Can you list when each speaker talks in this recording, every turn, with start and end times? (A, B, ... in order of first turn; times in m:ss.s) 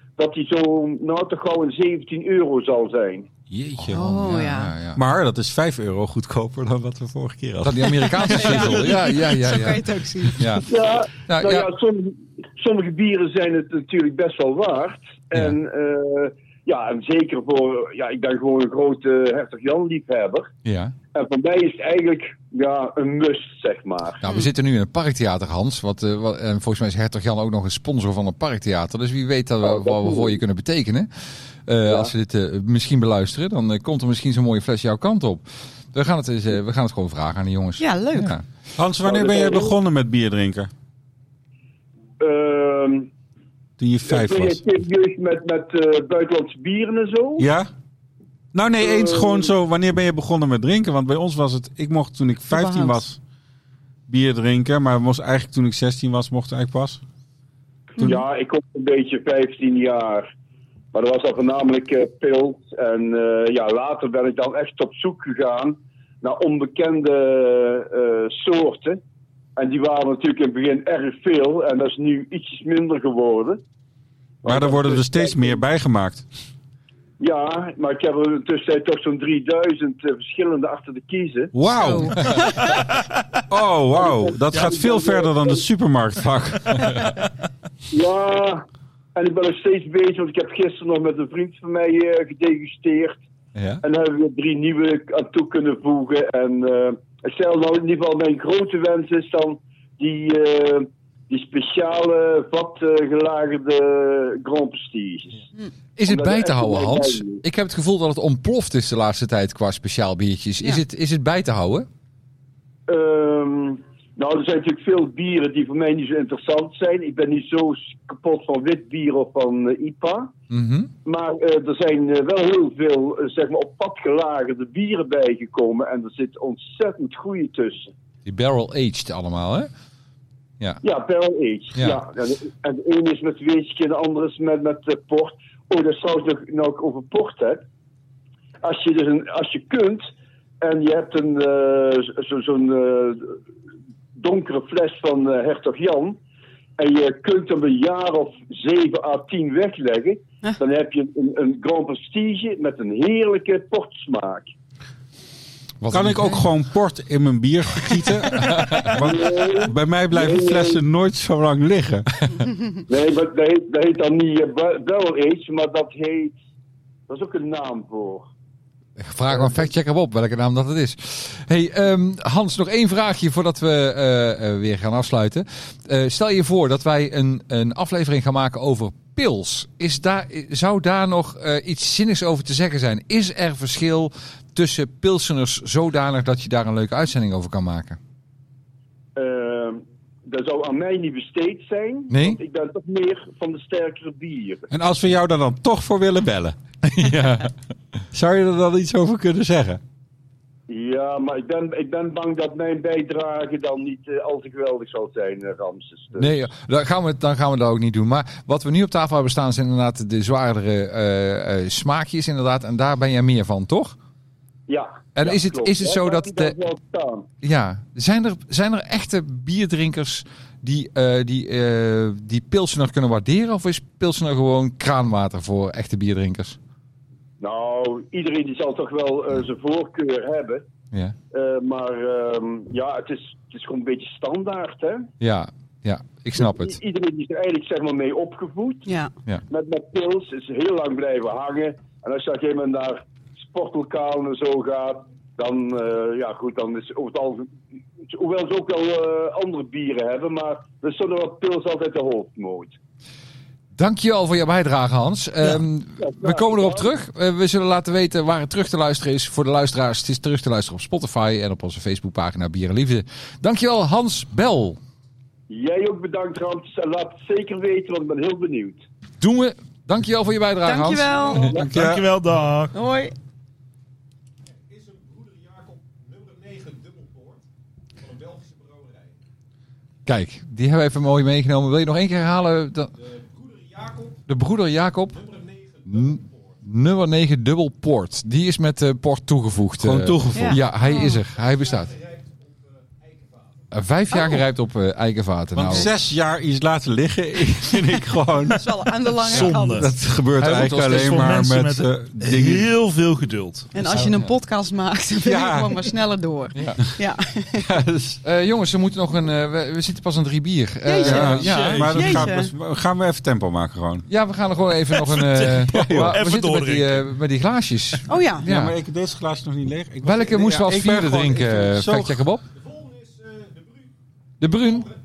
0:00.2-0:03.3 A
0:03.5-0:04.0 B
0:03.9-0:05.0 C
0:03.9-0:04.7 D
0:05.0-0:08.9 B
0:07.6-0:09.8 C
0:08.2-0:10.5 D
0:10.4-0:10.7 C
0:10.6-0:20.5 A
0:11.3-0:11.7 C
0:20.6-0:20.9 C
0:21.1-0:24.2 A
0:24.2-0:31.1 C
0:29.6-0:30.4 A
0:31.7-0:38.4 C
0:37.8-0:38.3 D
0:38.8-0:40.7 B
0:39.0-0:39.8 A
0:42.2-0:43.1 A
0:43.8-0:44.6 B
0:44.0-0:47.4 A
0:47.4-0:47.7 B
0:48.5-0:53.2 B
0:48.8-0:49.5 A
0:52.5-0:53.0 D
0:54.1-0:57.0 B
0:58.0-1:00.3 A
1:00.9-1:09.0 A
1:09.6-1:13.6 A
1:14.4-1:15.6 A
1:14.4-1:16.2 B
1:17.2-1:21.5 A
1:21.5-1:22.5 B
1:21.7-1:22.8 D
1:23.5-1:27.1 B
1:24.0-1:25.6 A
1:27.9-1:28.6 A
1:29.2-1:33.2 A
1:33.6-1:33.8 C
1:33.8-1:45.4 A
1:46.0-1:51.9 C
1:46.1-1:47.4 A
1:52.9-2:00.3 A
2:00.5-2:00.9 C
2:01.0-2:07.9 A
2:08.2-2:09.7 C
2:10.8-2:17.6 A
2:11.8-2:12.0 C
2:18.6-2:20.0 A
2:20.6-2:23.4 A
2:24.2-2:26.2 A
2:26.8-2:34.5 A
2:35.8-2:36.5 C
2:35.9-2:42.1 B
2:38.4-2:38.9 C
2:38.9-2:40.8 A
2:42.9-2:46.4 A
2:47.1-2:48.3 A
2:49.0-3:08.0 C
2:49.3-2:49.6 A
3:09.2-3:14.7 A
3:12.1-3:12.4 C
3:14.7-3:16.6 B
3:16.9-3:17.5 C
3:18.1-3:19.8 B
3:20.7-3:26.3 A
3:26.2-3:34.0 C
3:34.7-3:37.3 A
3:35.2-3:36.6 C
3:37.4-3:46.6 C
3:47.4-3:50.6 A
3:51.3-3:55.1 A
3:55.2-3:56.8 C
3:56.4-3:58.9 A
3:58.9-3:59.1 D
3:59.5-4:12.8 A
4:13.8-4:24.8 C
4:16.0-4:16.9 A
4:25.5-4:28.8 A
4:29.2-4:31.5 C
4:30.7-4:31.5 D
4:31.5-4:32.7 E
4:31.5-4:32.1 B
4:32.7-4:33.1 D
4:34.7-4:37.4 F
4:38.0-4:39.1 F
4:40.1-4:42.9 C
4:43.2-4:44.2 F
4:44.3-4:45.2 C
4:45.2-4:46.4 F
4:45.9-4:52.0 C
4:49.8-4:50.6 B
4:50.3-4:51.2 D
4:51.6-4:53.4 F
4:53.7-4:55.9 C
4:54.1-4:54.4 D
4:55.6-4:58.7 B
4:58.6-4:59.9 D
4:59.2-5:02.7 B
4:59.2-5:03.7 E
5:03.7-5:07.6 D
5:03.8-5:04.3 C
5:05.2-5:05.9 B
5:06.6-5:06.8 C
5:07.5-5:08.2 B
5:08.2-5:12.2 C
5:10.8-5:12.5 D
5:11.0-5:14.1 B
5:11.4-5:11.9 E
5:14.1-5:18.7 C
5:15.0-5:17.1 E
5:15.7-5:16.2 B
5:18.1-5:18.5 D
5:18.4-5:22.3 B
5:20.0-5:22.4 C
5:22.6-5:23.9 F
5:24.4-5:24.9 C